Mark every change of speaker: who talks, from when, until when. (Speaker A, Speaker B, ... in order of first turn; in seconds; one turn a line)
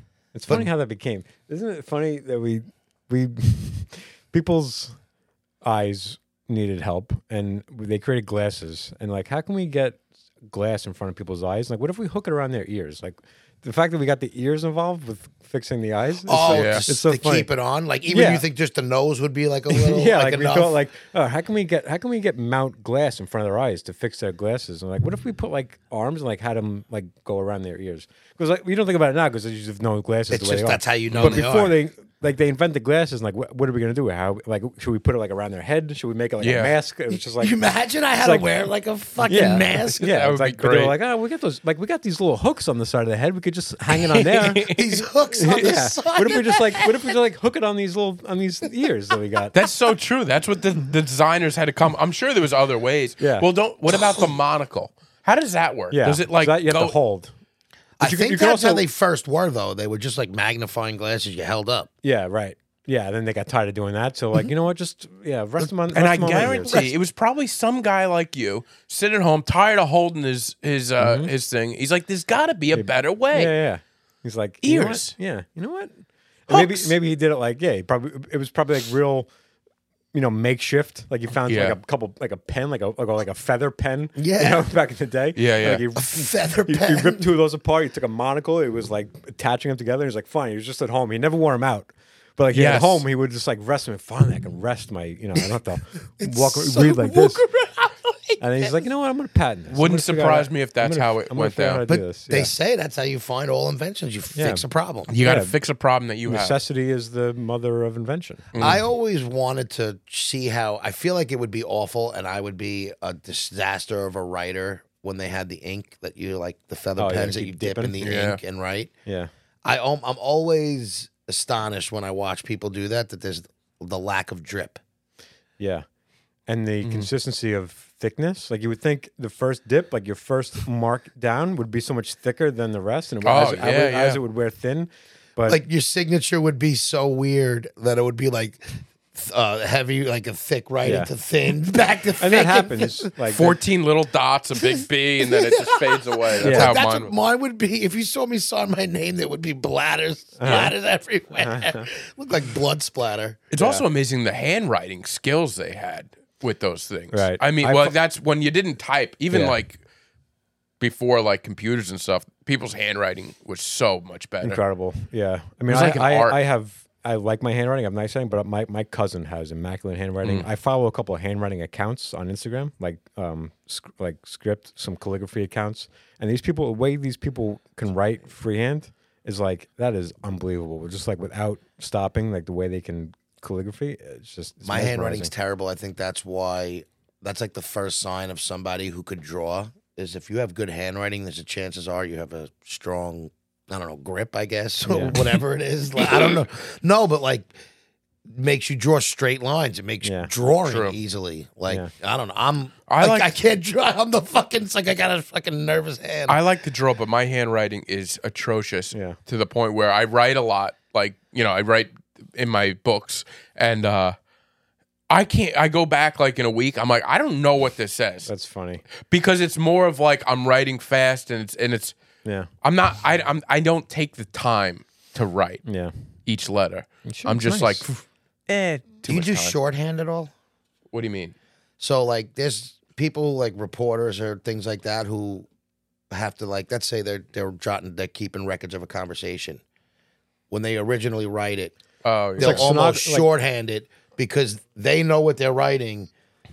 Speaker A: 0.3-5.0
Speaker A: 5.6-17.5
Speaker B: 16.3-20.8
Speaker C: 16.5-16.8
Speaker A: 18.1-18.4
Speaker A: 19.7-37.5
Speaker B: 30.3-31.8
Speaker C: 31.1-31.4
Speaker C: 36.4-36.8
Speaker B: 37.3-40.1
Speaker A: 38.2-38.5
Speaker A: 39.3-44.7
Speaker C: 40.0-41.0
Speaker C: 44.1-45.0
Speaker B: 44.6-47.1
Speaker A: 45.3-49.5
Speaker C: 49.5-57.0
Speaker A: 53.2-53.5
Speaker A: 55.9-57.3
Speaker B: 58.0-61.9
Speaker A: 58.0-58.9
Speaker A: 62.0-66.8
Speaker C: 65.9-73.5
Speaker B: 66.2-66.9
Speaker A: 71.0-71.3
Speaker A: 72.7-79.3
Speaker C: 74.6-75.1
Speaker C: 76.5-77.0
Speaker A: 80.1-97.4
Speaker C: 81.5-81.8
Speaker B: 84.2-84.7
Speaker C: 85.4-85.8
Speaker B: 86.0-87.2
Speaker C: 92.5-93.1
Speaker B: 96.2-98.8
Speaker A: 98.4-102.5
Speaker C: 99.7-101.8
Speaker B: 101.9-105.1
Speaker A: 104.3-104.6
Speaker C: 105.1-106.6
Speaker A: 105.2-105.5
Speaker A: 106.3-108.7
Speaker C: 108.5-108.8
Speaker B: 108.6-118.9
Speaker A: 117.0-117.9
Speaker C: 118.0-118.4
Speaker A: 119.1-119.3
Speaker B: 119.6-124.8
Speaker A: 125.6-125.8
Speaker A: 126.5-135.6
Speaker C: 126.8-127.1
Speaker C: 133.2-134.2
Speaker B: 135.5-143.1
Speaker A: 140.8-141.1
Speaker A: 142.2-143.5
Speaker C: 143.3-147.1
Speaker B: 144.6-153.4
Speaker A: 146.4-146.8
Speaker A: 150.4-150.7
Speaker A: 151.4-151.9
Speaker C: 153.5-159.8
Speaker A: 153.6-153.8
Speaker A: 157.1-158.0
Speaker A: 159.3-159.6
Speaker C: 160.8-164.6
Speaker A: 164.4-185.3
Speaker C: 165.7-166.4
Speaker C: 170.2-170.5
Speaker B: 184.7-197.5
Speaker A: 194.8-195.2
Speaker C: 196.0-196.4
Speaker B: 198.3-206.4
Speaker A: 200.0-200.3
Speaker C: 200.6-201.0
Speaker C: 202.9-203.4
Speaker C: 206.3-214.2
Speaker A: 208.9-209.2
Speaker C: 215.1-218.3
Speaker A: 218.3-218.8
Speaker C: 219.0-221.9
Speaker C: 222.6-225.6
Speaker A: 225.7-225.9
Speaker C: 226.3-229.6
Speaker A: 227.1-227.8
Speaker B: 229.1-230.3
Speaker C: 230.9-231.3
Speaker B: 231.8-235.5
Speaker B: 236.1-239.6
Speaker B: 240.5-241.8
Speaker C: 242.0-242.7
Speaker A: 242.4-243.3
Speaker B: 242.4-246.1